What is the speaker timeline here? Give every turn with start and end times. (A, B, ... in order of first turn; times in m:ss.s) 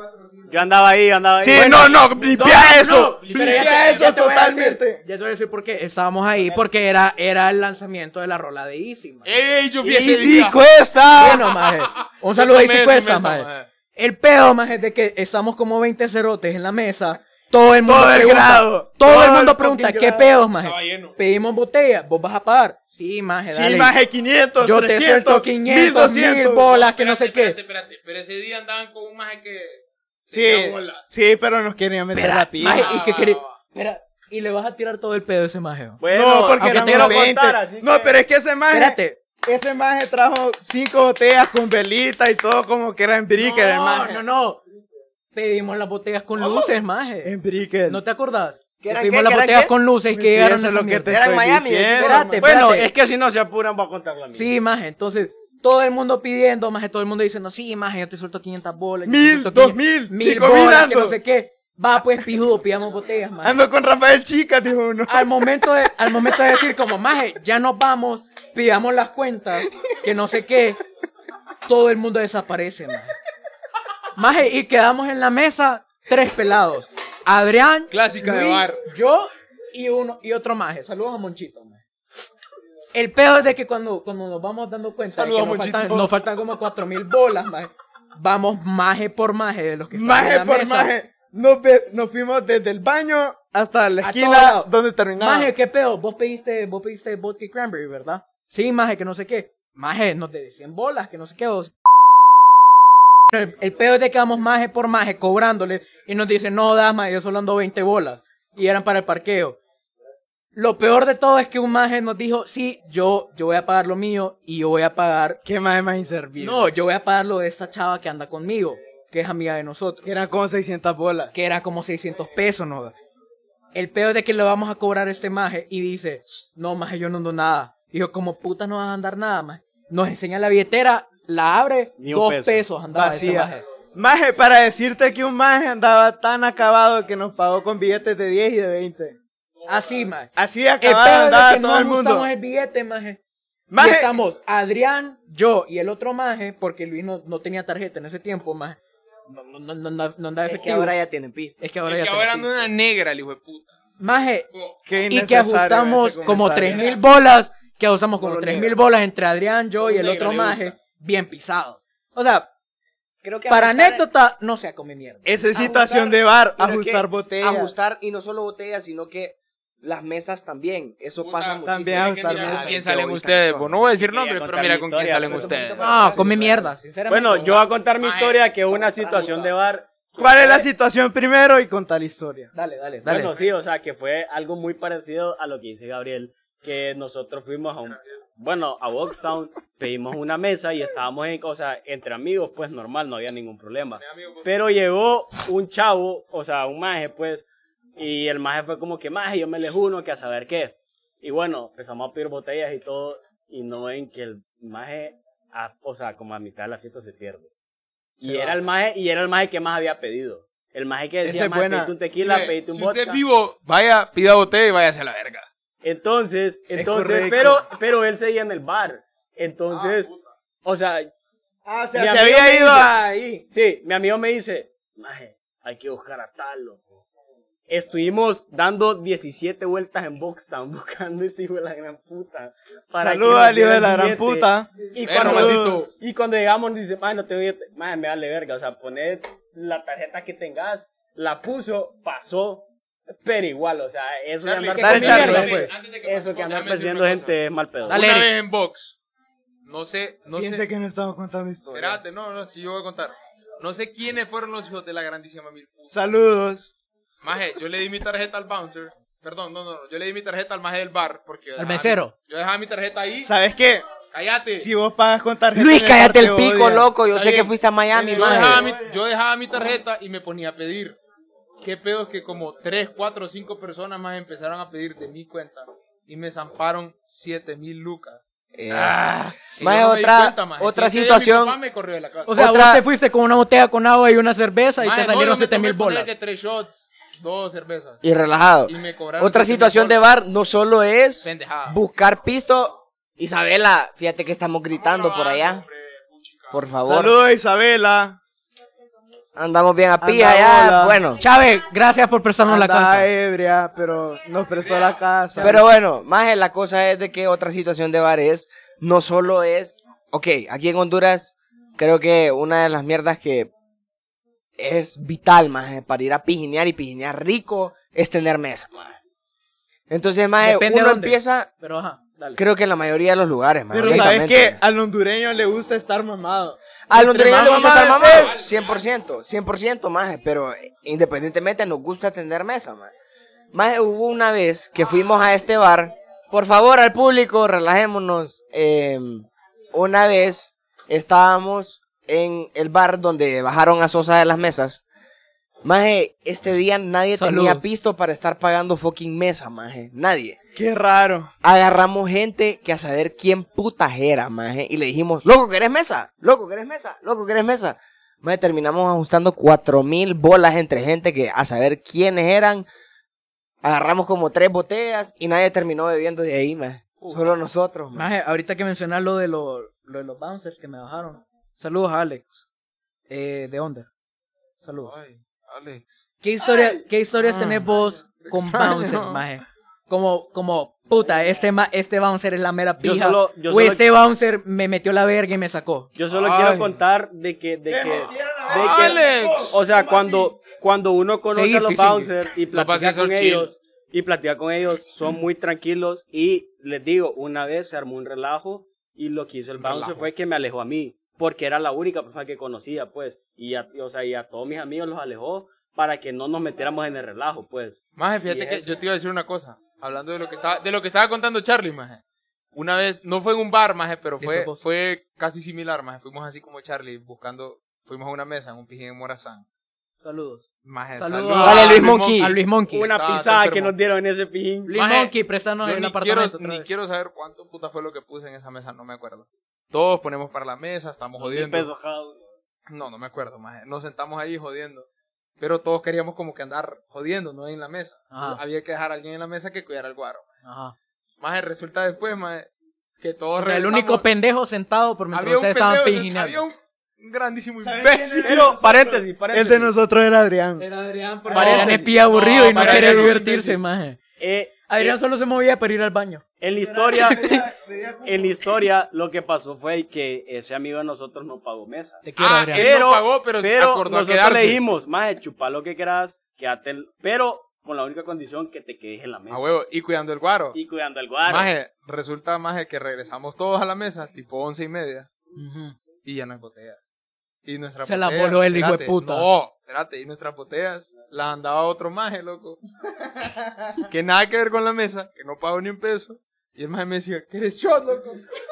0:00.5-0:02.0 A
0:01.4-0:05.0 B
0:01.8-0:09.3 C
0:03.4-0:03.9 D
0:06.4-0:06.6 A
0:09.2-0:13.7 D
0:09.8-0:11.4 B
0:11.2-0:23.9 C
0:17.8-0:20.3 B
0:20.6-0:21.1 D
0:23.5-0:26.7 B
0:24.6-0:27.6 C
0:26.6-0:31.0 D
0:30.3-0:32.9 B
0:32.1-0:36.0 C
0:32.6-0:33.6 D
0:36.0-0:38.2 A
0:36.1-0:44.2 B
0:36.6-0:37.2 C
0:38.7-0:39.2 C
0:43.4-0:44.6 C
0:45.3-0:47.3 C
0:47.2-0:48.0 B
0:47.9-0:51.1 C
0:48.8-0:49.7 E
0:50.1-0:52.6 B
0:51.1-0:52.3 E
0:52.0-0:52.9 C
0:52.4-0:54.5 A
0:54.3-1:03.6 C
0:59.0-1:01.2 B
1:03.4-1:05.3 B
1:05.1-1:10.8 C
1:11.6-1:13.1 C
1:14.2-1:21.8 C
1:17.9-1:18.8 D
1:22.9-1:30.9 C
1:25.2-1:26.1 D
1:29.9-1:35.5 B
1:34.0-1:41.7 C
1:43.3-1:49.6 C
1:50.5-1:55.4 C
1:55.4-1:56.7 B
1:56.4-2:00.1 C
2:00.0-2:01.3 B
2:01.3-2:03.0 C
2:03.7-2:13.6 C
2:12.0-2:12.6 A
2:12.9-2:19.2 B
2:19.7-2:20.3 C
2:19.7-2:20.1 D
2:20.4-2:22.3 B
2:20.8-2:23.2 C
2:23.7-2:24.1 B
2:23.8-2:28.8 C
2:29.3-2:30.9 C
2:30.4-2:31.6 E
2:31.6-2:32.7 C
2:31.8-2:33.7 D
2:34.0-2:34.5 C
2:34.5-2:34.8 D
2:34.9-2:36.9 B
2:35.1-2:42.5 C
2:38.2-2:38.7 E
2:39.8-2:40.7 A
2:43.2-2:44.0 E
2:43.5-2:45.3 C
2:45.2-2:47.7 B
2:45.5-2:53.8 E
2:51.2-2:56.1 D
2:51.6-2:52.8 B
2:54.0-2:55.7 A
2:55.2-2:56.7 E
2:55.8-2:57.6 C
2:57.1-3:00.6 A
2:58.0-2:58.5 D
2:59.0-2:59.5 D
3:00.2-3:02.5 B
3:02.5-3:03.3 C
3:03.0-3:17.4 A
3:14.0-3:14.5 D
3:18.0-3:27.5 A
3:28.2-3:33.2 A
3:31.2-3:31.9 B
3:32.2-3:35.5 D
3:35.8-3:40.1 A
3:36.8-3:37.6 B
3:39.7-3:40.1 D
3:40.6-3:41.1 A
3:41.6-3:43.4 B
3:41.9-3:42.9 A
3:43.5-3:47.0 A
3:47.7-4:08.0 A
3:53.0-3:55.8 B
3:55.0-3:55.9 D
4:04.4-4:09.0 D
4:04.7-4:05.7 C
4:04.8-4:05.6 B
4:07.9-4:08.3 C
4:09.6-4:10.6 D
4:10.4-4:12.1 B
4:11.7-4:16.1 D
4:15.9-4:16.7 B
4:17.2-4:23.3 D
4:21.6-4:22.1 C
4:23.2-4:23.8 B
4:24.1-4:24.7 D
4:24.6-4:26.9 B
4:25.5-4:28.7 E
4:27.1-4:27.5 D
4:27.9-4:29.0 B
4:28.1-4:31.0 D
4:31.6-4:42.4 D
4:38.6-4:41.6 E
4:42.3-4:46.1 C
4:42.3-4:42.8 E
4:44.8-4:48.0 D
4:48.0-4:55.6 E
4:48.6-4:50.0 D
4:51.2-4:51.8 D
4:54.7-4:56.7 D
4:56.5-4:57.1 E
4:56.8-4:58.2 B
4:59.3-5:01.2 E
5:00.0-5:01.0 B
5:01.2-5:03.1 C
5:02.4-5:05.6 B
5:04.6-5:04.9 D
5:05.3-5:05.6 C
5:05.4-5:13.5 E
5:14.6-5:19.0 E
5:19.9-5:21.5 E
5:20.4-5:22.4 C
5:22.4-5:24.6 E
5:23.7-5:28.4 B
5:26.9-5:32.9 E
5:27.6-5:28.8 D
5:33.5-5:44.8 E
5:45.6-5:50.4 E
5:47.1-5:47.6 C
5:50.5-5:51.3 B
5:51.4-6:02.7 E
6:03.6-6:08.1 E
6:07.9-6:12.4 C
6:13.1-6:13.9 C
6:14.6-6:14.9 C
6:14.8-6:16.0 D
6:16.2-6:25.9 C
6:16.4-6:17.7 B
6:18.2-6:18.8 D
6:18.5-6:19.1 B
6:22.8-6:23.8 A
6:26.0-6:48.8 A
6:26.1-6:26.8 D
6:27.7-6:30.3 B
6:28.5-6:29.6 D
6:31.3-6:32.2 C
6:32.5-6:33.5 D
6:39.6-6:40.1 D
6:48.0-6:52.0 D
6:52.5-6:59.4 D
6:54.2-6:54.6 C
7:00.0-7:02.9 C
7:00.6-7:03.7 D
7:01.4-7:02.3 E
7:02.7-7:04.7 A
7:04.7-7:06.7 C
7:04.7-7:05.1 D
7:05.6-7:11.7 D
7:11.2-7:12.2 A
7:12.7-7:14.9 D
7:15.4-7:20.3 D
7:18.1-7:18.4 C
7:20.4-7:20.7 C
7:21.2-7:22.5 D
7:23.0-7:24.1 D
7:23.4-7:26.4 C
7:25.1-7:28.5 D
7:27.6-7:30.7 B
7:28.2-7:29.7 A
7:30.6-7:34.0 C
7:31.2-7:31.9 B
7:31.3-7:33.6 A
7:32.1-7:33.2 D
7:34.2-7:35.0 A
7:34.7-7:36.2 C
7:36.4-7:37.4 A
7:36.5-7:38.6 B
7:37.1-7:37.4 C
7:38.0-7:49.5 A
7:42.0-7:42.7 C
7:42.2-7:44.6 D
7:49.3-7:50.6 D
7:50.5-7:51.5 A
7:51.2-7:55.1 D
7:55.4-7:55.8 C
7:56.0-7:56.8 D
7:57.4-8:02.6 D
7:57.8-7:59.3 C
8:03.9-8:07.4 D
8:07.3-8:08.2 B